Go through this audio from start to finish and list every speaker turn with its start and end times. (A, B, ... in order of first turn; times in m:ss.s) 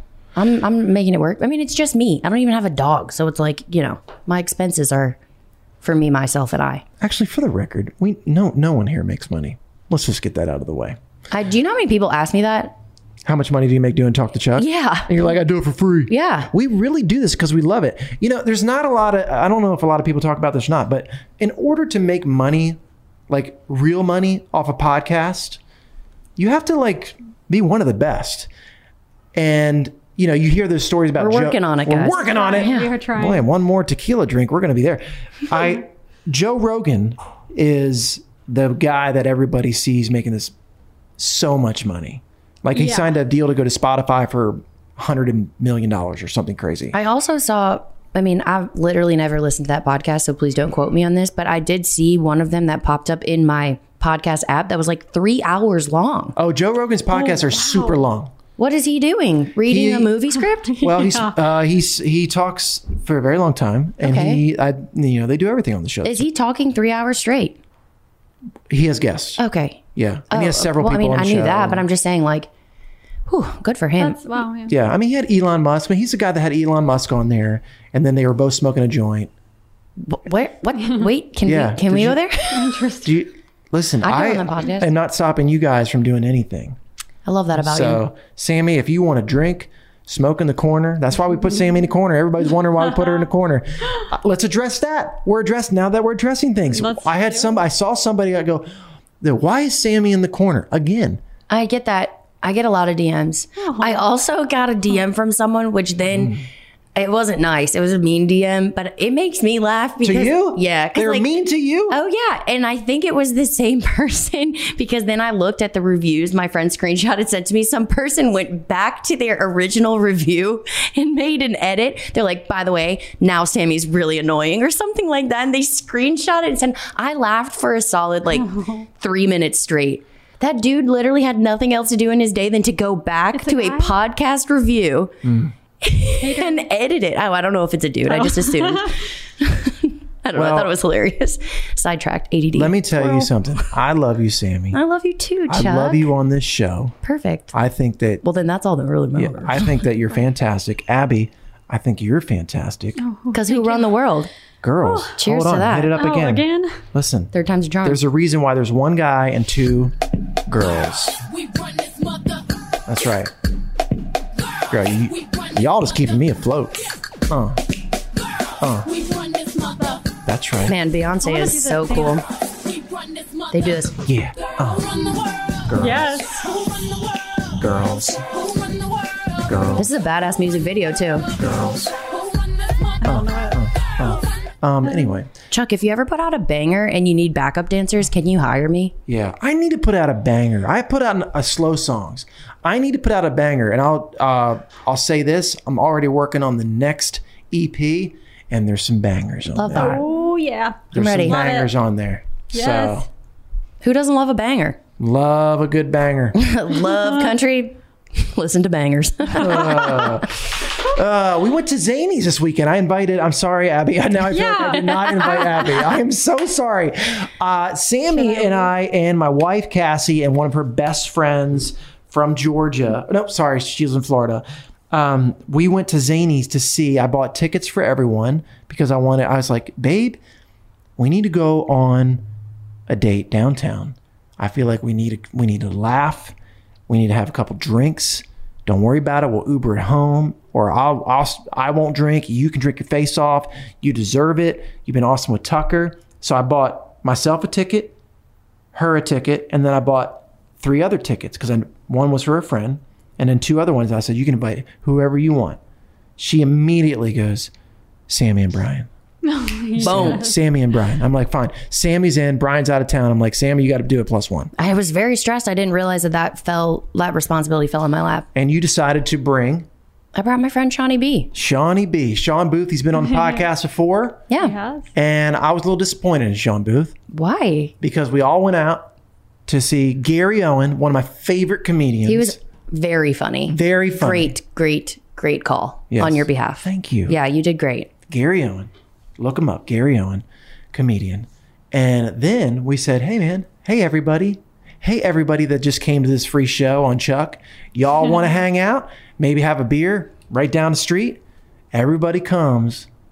0:00.4-0:05.2 A
0:05.8-0:06.8 A
0:07.0-0:11.0 B
0:11.3-0:12.8 A
0:13.2-0:25.6 B
0:14.6-0:15.1 A
0:16.1-0:16.5 A
0:26.4-0:28.5 B
0:29.3-0:40.5 B
0:31.2-0:32.9 A
0:32.2-0:33.4 C
0:41.2-0:47.0 B
0:42.7-0:43.1 C
0:46.9-0:56.4 A
0:56.4-0:58.3 B
0:57.1-0:58.0 C
0:58.6-1:00.8 A
0:59.7-1:00.2 B
1:00.8-1:01.4 C
1:00.8-1:06.3 B
1:04.0-1:04.4 A
1:06.0-1:07.6 A
1:08.7-1:09.4 B
1:09.4-1:12.5 A
1:10.0-1:11.8 B
1:13.3-1:14.3 A
1:14.0-1:14.8 C
1:14.7-1:19.3 B
1:20.0-1:22.7 A
1:21.4-1:22.2 B
1:22.5-1:23.2 C
1:23.0-1:26.8 B
1:24.0-1:24.9 A
1:27.2-1:28.0 A
1:27.5-1:38.7 B
1:36.7-1:37.7 C
1:39.2-1:41.2 B
1:41.5-1:46.3 A
1:43.6-1:44.1 C
1:46.1-1:46.5 B
1:47.0-1:51.3 A
1:50.0-1:52.0 B
1:51.9-2:15.2 A
2:08.3-2:08.9 C
2:13.3-2:14.0 C
2:15.2-2:15.5 B
2:15.8-2:23.3 A
2:16.2-2:16.7 C
2:18.1-2:18.9 C
2:20.4-2:20.7 B
2:22.5-2:24.8 B
2:24.7-2:26.1 A
2:25.5-2:27.0 B
2:27.0-2:27.5 A
2:27.5-2:28.2 B
2:28.2-2:29.8 A
2:29.2-2:33.0 B
2:33.0-2:34.0 C
2:33.3-2:34.3 A
2:34.6-2:40.0 B
2:34.8-2:35.1 C
2:35.2-2:36.0 A
2:35.9-2:36.8 C
2:37.3-2:38.0 A
2:40.5-2:41.2 B
2:42.9-2:43.3 B
2:44.7-2:46.8 B
2:47.3-2:47.6 B
2:48.6-2:48.9 B
2:50.2-2:50.8 B
2:50.6-2:52.2 A
2:51.2-2:52.2 C
2:53.5-2:54.0 A
2:54.0-2:55.0 B
2:55.7-2:56.3 B
2:55.7-2:56.5 C
2:57.6-2:58.2 B
2:59.5-2:59.9 B
2:59.8-3:01.3 A
3:01.4-3:01.9 B
3:03.0-3:03.6 C
3:03.0-3:05.3 B
3:05.5-3:09.0 A
3:09.1-3:20.0 B
3:19.5-3:20.0 A
3:19.7-3:21.7 C
3:20.9-3:23.1 B
3:20.9-3:21.4 A
3:22.5-3:23.1 C
3:23.8-3:24.8 A
3:25.0-3:26.4 B
3:26.4-3:30.1 A
3:26.9-3:27.3 C
3:29.4-3:30.4 B
3:30.9-3:50.2 B
3:34.3-3:35.9 C
3:38.1-3:38.7 C
3:51.0-3:52.2 B
3:52.9-3:56.4 B
3:56.9-4:08.0 B
4:08.7-4:15.6 B
4:16.2-4:17.5 B
4:18.1-4:18.9 B
4:19.2-4:20.4 C
4:19.8-4:24.5 B
4:19.8-4:20.3 A
4:24.6-4:28.3 A
4:28.4-4:29.7 B
4:30.1-4:31.3 A
4:31.3-4:34.3 B
4:33.0-4:33.4 C
4:34.4-4:34.9 C
4:35.0-4:37.0 B
4:37.1-4:37.8 A
4:37.8-4:38.9 B
4:39.5-4:42.4 B
4:42.1-4:47.9 A
4:43.5-4:44.4 B
4:45.9-4:47.2 B
4:48.1-5:01.2 B
5:01.7-5:02.9 B